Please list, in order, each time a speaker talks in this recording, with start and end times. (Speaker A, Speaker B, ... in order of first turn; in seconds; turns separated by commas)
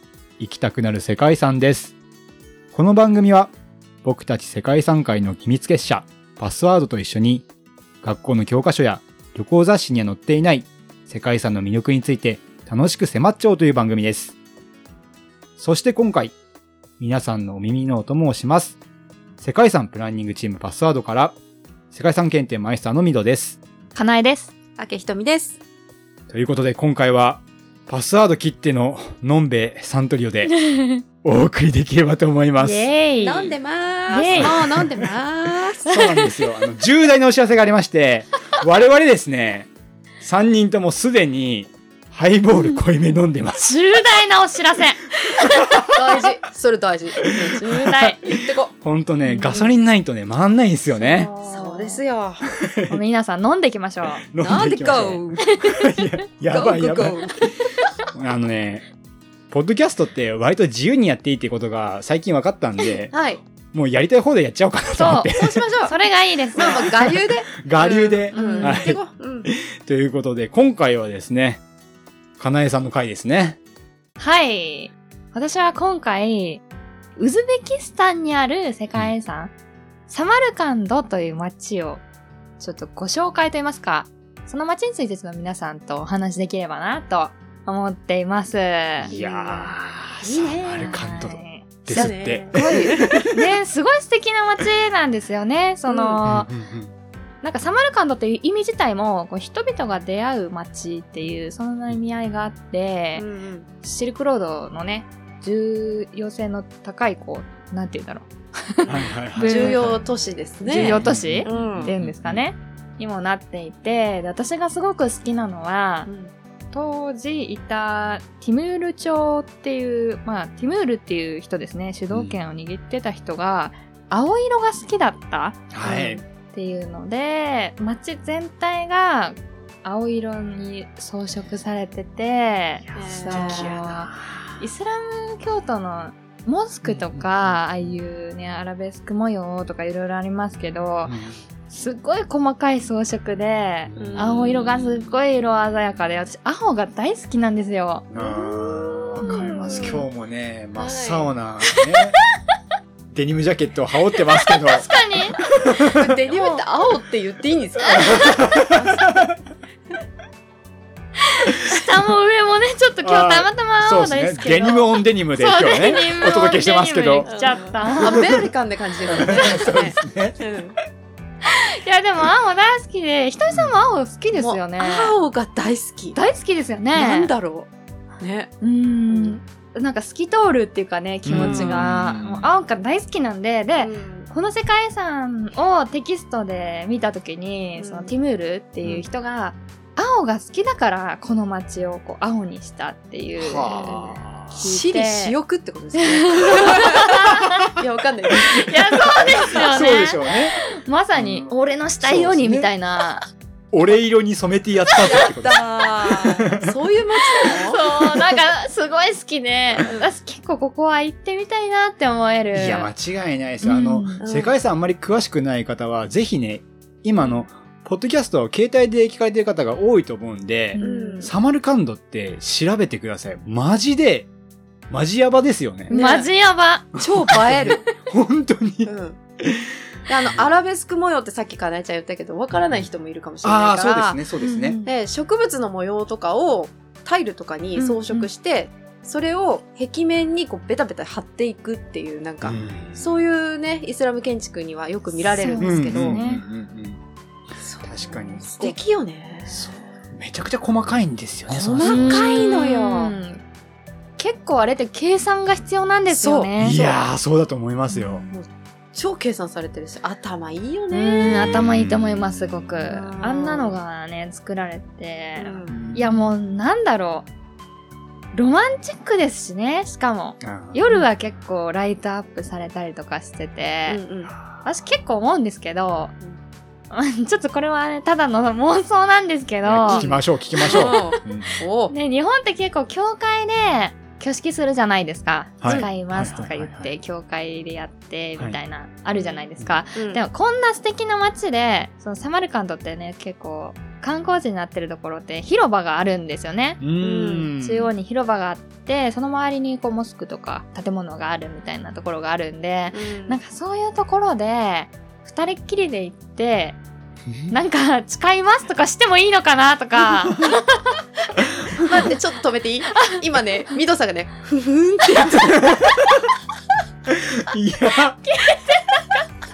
Speaker A: 0.4-1.9, Speaker A: 2.7-7.5, Speaker A: 8.0-14.3, Speaker A: 15.6-16.4, Speaker A: 17.0-18.8, Speaker A: 19.4-21.4, Speaker A: 21.9-23.6, Speaker B: 23.9-24.5, Speaker C: 24.8-25.6, Speaker A: 26.3-30.6, Speaker B: 30.5-31.0, Speaker A: 31.2-33.5, Speaker B: 32.6-33.5, Speaker C: 33.2-35.9, Speaker B: 34.1-34.6, Speaker A: 34.1-35.1, Speaker B: 35.9-36.3, Speaker A: 35.9-39.7, Speaker A: 40.2-43.7, Speaker B: 43.6-46.2, Speaker A: 45.5-45.9, Speaker C: 45.9-48.7, Speaker B: 47.6-48.2, Speaker A: 48.7-51.3, Speaker B: 49.2-49.7, Speaker B: 51.0-52.0, Speaker C: 51.3-52.5, Speaker A: 52.6-53.0, Speaker B: 52.9-54.2, Speaker A: 54.2-57.2, Speaker C: 54.4-55.6, Speaker B: 55.4-55.9, Speaker C: 56.5-57.4, Speaker A: 58.1-58.9, Speaker A: 59.5-63.2, Speaker C: 63.1-63.4, Speaker A: 63.7-65.7, Speaker B: 65.0-66.8, Speaker C: 65.3-66.0, Speaker C: 66.6-69.5, Speaker A: 66.6-71.6, Speaker B: 68.3-68.9, Speaker A: 72.4-73.6, Speaker B: 74.2-76.6, Speaker B: 77.2-79.5, Speaker B: 80.1-82.0, Speaker B: 82.6-89.1, Speaker C: 89.0-89.7, Speaker A: 89.0-93.4, Speaker B: 90.2-96.5, Speaker C: 91.9-93.3, Speaker C: 95.9-96.2, Speaker A: 96.2-96.9, Speaker B: 97.4-103.2, Speaker C: 103.2-103.7, Speaker B: 103.8-110.0, Speaker A: 108.9-110.0, Speaker C: 108.9-111.9, Speaker B: 110.7-116.1, Speaker A: 110.7-112.4, Speaker C: 116.1-116.3, Speaker B: 116.7-141.2, Speaker A: 122.1-122.4, Speaker A: 125.7-126.2, Speaker C: 125.9-126.2, Speaker A: 132.8-134.7, Speaker C: 133.0-133.8, Speaker A: 136.8-138.0, Speaker A: 141.1-141.4, Speaker B: 141.7-148.1, Speaker A: 143.9-145.1, Speaker C: 144.0-144.8, Speaker A: 148.1-152.2, Speaker C: 148.2-150.1, Speaker B: 149.2-150.1, Speaker C: 150.8-151.3, Speaker A: 153.1-154.9, Speaker B: 154.4-155.4, Speaker A: 155.6-156.1, Speaker C: 155.9-159.2, Speaker B: 156.3-156.6, Speaker B: 157.8-158.4, Speaker A: 157.9-159.3, Speaker B: 161.2-168.3, Speaker A: 163.0-168.5, Speaker C: 167.3-170.8, Speaker A: 169.1-170.4, Speaker B: 169.3-169.8, Speaker B: 171.4-175.2, Speaker C: 174.3-176.2, Speaker B: 176.2-177.3, Speaker C: 176.9-177.7, Speaker C: 178.2-178.5, Speaker B: 178.6-195.4, Speaker C: 179.1-179.4, Speaker A: 181.2-182.5, Speaker C: 181.4-181.8, Speaker C: 183.8-184.3, Speaker C: 187.8-188.1, Speaker A: 193.4-194.7, Speaker C: 193.7-197.1, Speaker B: 196.0-197.7, Speaker C: 197.7-199.7, Speaker B: 198.3-203.2, Speaker A: 199.6-200.6, Speaker A: 201.2-202.7, Speaker A: 203.7-206.7, Speaker C: 205.0-207.8, Speaker B: 207.4-212.9, Speaker A: 212.5-224.3, Speaker B: 213.6-214.2, Speaker C: 214.2-214.6, Speaker B: 220.7-221.3, Speaker C: 220.8-221.3, Speaker A: 224.9-225.9, Speaker B: 225.9-226.9, Speaker C: 225.9-226.3, Speaker A: 227.0-230.5, Speaker C: 227.0-227.8, Speaker C: 228.8-229.2, Speaker C: 230.1-234.2, Speaker A: 232.5-232.9, Speaker A: 233.4-234.8, Speaker B: 234.4-234.9, Speaker C: 234.8-246.2, Speaker B: 237.8-238.3, Speaker A: 242.4-243.2, Speaker B: 245.2-246.4, Speaker A: 245.6-247.0, Speaker C: 247.6-250.0, Speaker A: 247.8-248.5, Speaker A: 249.5-252.3, Speaker C: 251.5-253.2, Speaker B: 251.8-253.4, Speaker B: 254.2-256.8, Speaker C: 256.1-257.0, Speaker A: 256.6-258.2, Speaker C: 258.0-261.7, Speaker B: 260.9-267.3, Speaker A: 261.4-262.9, Speaker C: 262.9-263.8, Speaker C: 265.4-265.8, Speaker A: 265.7-266.3, Speaker B: 268.3-274.0, Speaker A: 270.4-270.8, Speaker C: 273.9-274.3, Speaker A: 274.3-274.7, Speaker B: 274.6-276.1, Speaker B: 276.9-281.3, Speaker A: 279.6-281.5, Speaker C: 279.9-281.9, Speaker B: 281.9-296.8, Speaker A: 285.6-286.9, Speaker C: 285.6-285.9, Speaker C: 289.1-290.2, Speaker A: 296.8-297.9, Speaker C: 297.0-297.5, Speaker B: 297.6-306.8, Speaker C: 302.9-303.4, Speaker A: 307.3-307.6, Speaker B: 307.5-311.0, Speaker C: 311.8-315.8, Speaker A: 315.0-316.3, Speaker A: 317.1-318.2, Speaker B: 318.2-319.2